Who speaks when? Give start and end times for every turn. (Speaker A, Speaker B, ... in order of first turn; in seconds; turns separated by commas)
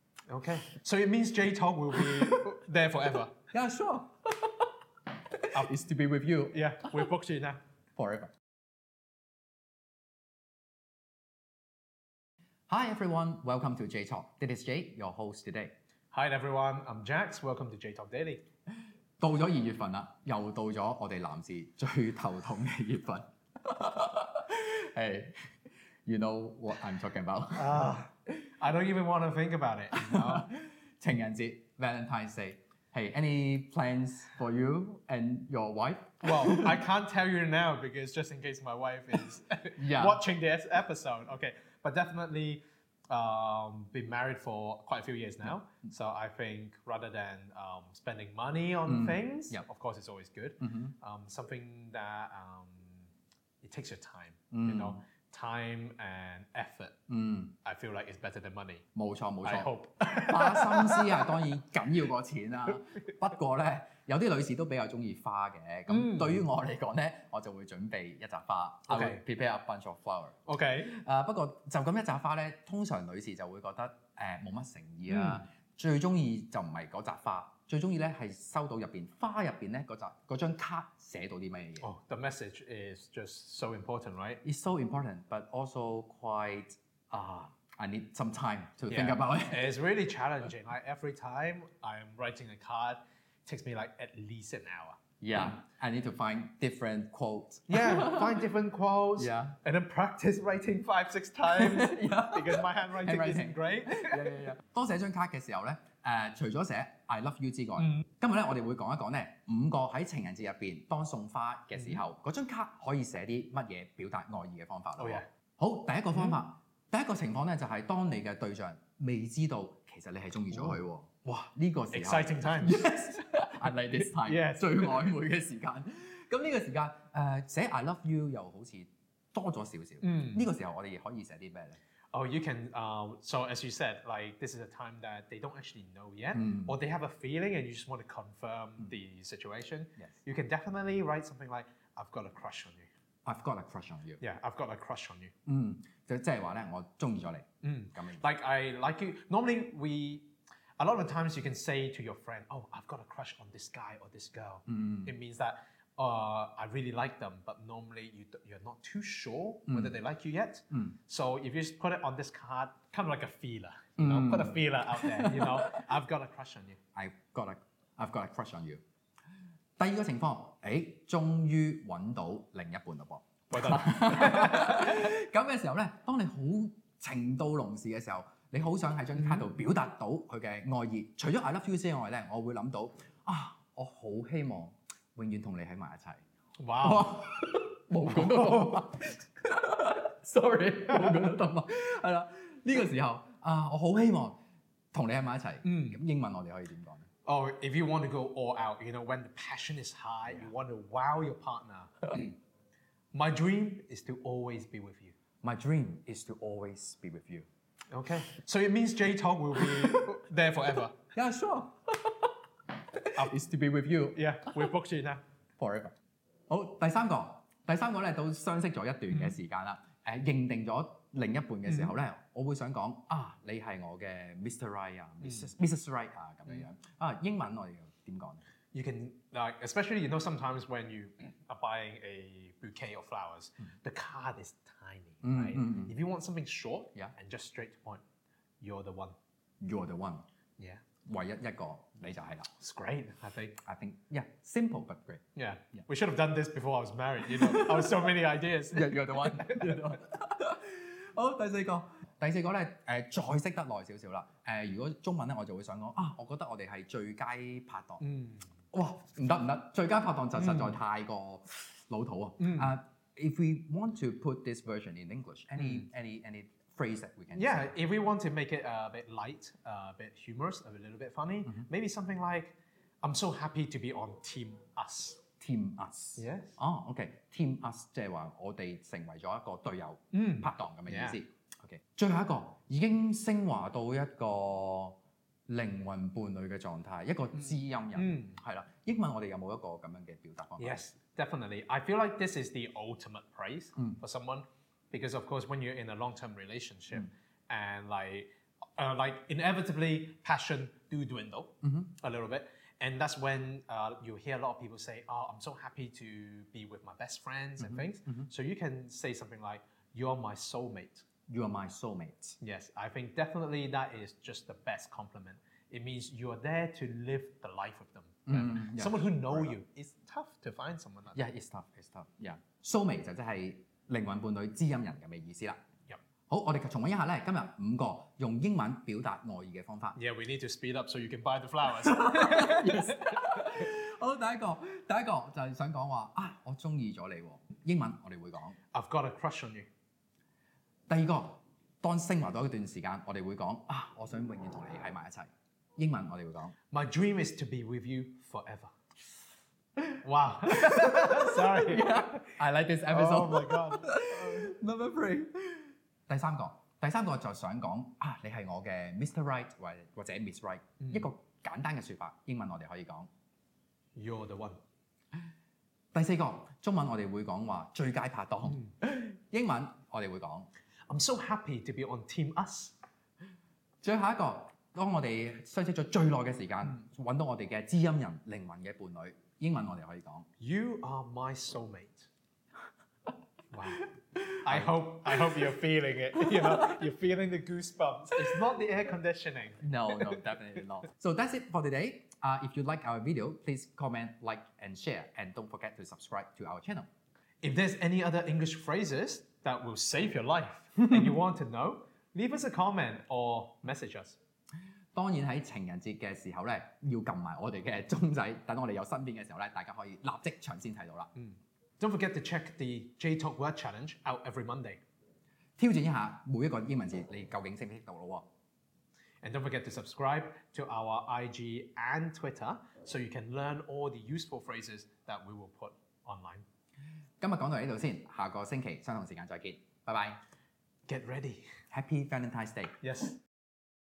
Speaker A: 0.3-3.4, Speaker B: 2.1-2.4, Speaker B: 3.5-4.7, Speaker B: 5.2-6.8, Speaker A: 6.5-7.6, Speaker B: 8.0-8.3, Speaker B: 12.7-15.7, Speaker A: 16.1-18.4, Speaker B: 19.2-25.4, Speaker B: 26.1-28.5, Speaker A: 27.6-30.5, Speaker B: 30.0-36.8, Speaker A: 36.2-53.1, Speaker B: 39.8-40.2, Speaker B: 48.9-49.6, Speaker B: 50.6-50.9, Speaker A: 53.6-57.0, Speaker B: 54.5-55.0, Speaker B: 57.1-57.5, Speaker A: 57.6-58.9, Speaker B: 59.0-81.9, Speaker A: 59.4-61.4, Speaker A: 65.9-66.5, Speaker A: 68.9-69.2, Speaker A: 70.5-70.9, Speaker A: 75.1-75.5, Speaker A: 81.8-84.4, Speaker B: 84.4-89.7, Speaker A: 88.9-95.0, Speaker B: 95.2-98.4, Speaker A: 97.7-104.5, Speaker B: 99.2-99.6, Speaker B: 101.5-131.8, Speaker A: 107.8-108.0, Speaker A: 111.8-112.0, Speaker A: 115.0-115.3, Speaker A: 120.5-122.8, Speaker A: 123.9-125.1, Speaker A: 130.0-130.4, Speaker A: 132.1-142.9, Speaker B: 136.3-136.8, Speaker B: 143.3-144.2, Speaker A: 144.2-145.3, Speaker B: 145.5-148.2, Speaker A: 147.6-166.8, Speaker B: 154.7-155.1, Speaker B: 159.7-159.9, Speaker B: 164.0-165.8, Speaker B: 166.9-168.8, Speaker B: 169.8-186.2, Speaker A: 173.5-175.0, Speaker A: 186.6-187.2, Speaker B: 186.8-194.4, Speaker A: 188.1-188.7, Speaker B: 194.9-197.1, Speaker A: 195.6-196.0, Speaker A: 197.2-202.3, Speaker A: 203.1-205.2, Speaker B: 205.4-207.5, Speaker A: 207.9-211.0, Speaker B: 209.6-210.0, Speaker B: 211.1-214.7, Speaker A: 214.1-215.2, Speaker B: 215.6-216.0, Speaker B: 216.5-228.4, Speaker A: 219.1-219.4, Speaker A: 221.7-221.9, Speaker A: 228.7-238.0, Speaker B: 235.2-235.9, Speaker A: 238.6-239.2, Speaker B: 239.6-240.2, Speaker A: 240.6-240.8, Speaker B: 241.1-242.5, Speaker A: 242.6-243.6, Speaker B: 243.6-245.9, Speaker A: 245.3-249.8, Speaker B: 247.3-247.9, Speaker B: 248.7-258.0, Speaker A: 258.0-258.5, Speaker B: 258.7-267.8, Speaker A: 260.4-260.7, Speaker A: 262.4-262.7, Speaker A: 265.6-265.9, Speaker A: 267.4-275.2, Speaker B: 275.4-285.0, Speaker A: 276.2-276.6, Speaker A: 280.1-281.2, Speaker B: 285.5-290.9, Speaker A: 287.9-288.4, Speaker A: 290.6-311.1, Speaker B: 301.6-301.9, Speaker B: 307.6-308.3, Speaker B: 311.3-312.4, Speaker A: 312.4-321.2, Speaker B: 318.3-319.6, Speaker B: 321.1-325.6, Speaker B: 326.3-330.0, Speaker A: 330.0-333.3, Speaker B: 331.8-338.6, Speaker A: 338.7-339.7, Speaker B: 340.9-346.6, Speaker A: 346.7-348.7, Speaker A: 350.0-352.4, Speaker B: 350.5-363.1, Speaker A: 352.9-354.5, Speaker A: 360.8-361.1, Speaker A: 363.9-364.6, Speaker B: 365.9-370.5, Speaker A: 370.9-372.7, Speaker B: 373.8-380.3, Speaker A: 380.4-382.1, Speaker A: 383.5-390.2, Speaker B: 384.2-385.4, Speaker B: 386.3-386.8, Speaker B: 389.6-396.9, Speaker A: 397.4-404.2, Speaker B: 404.9-411.1, Speaker A: 411.1-414.8, Speaker B: 415.6-418.2, Speaker A: 419.2-426.4, Speaker B: 427.2-430.2, Speaker A: 430.9-431.5, Speaker B: 431.7-432.8, Speaker A: 432.8-433.2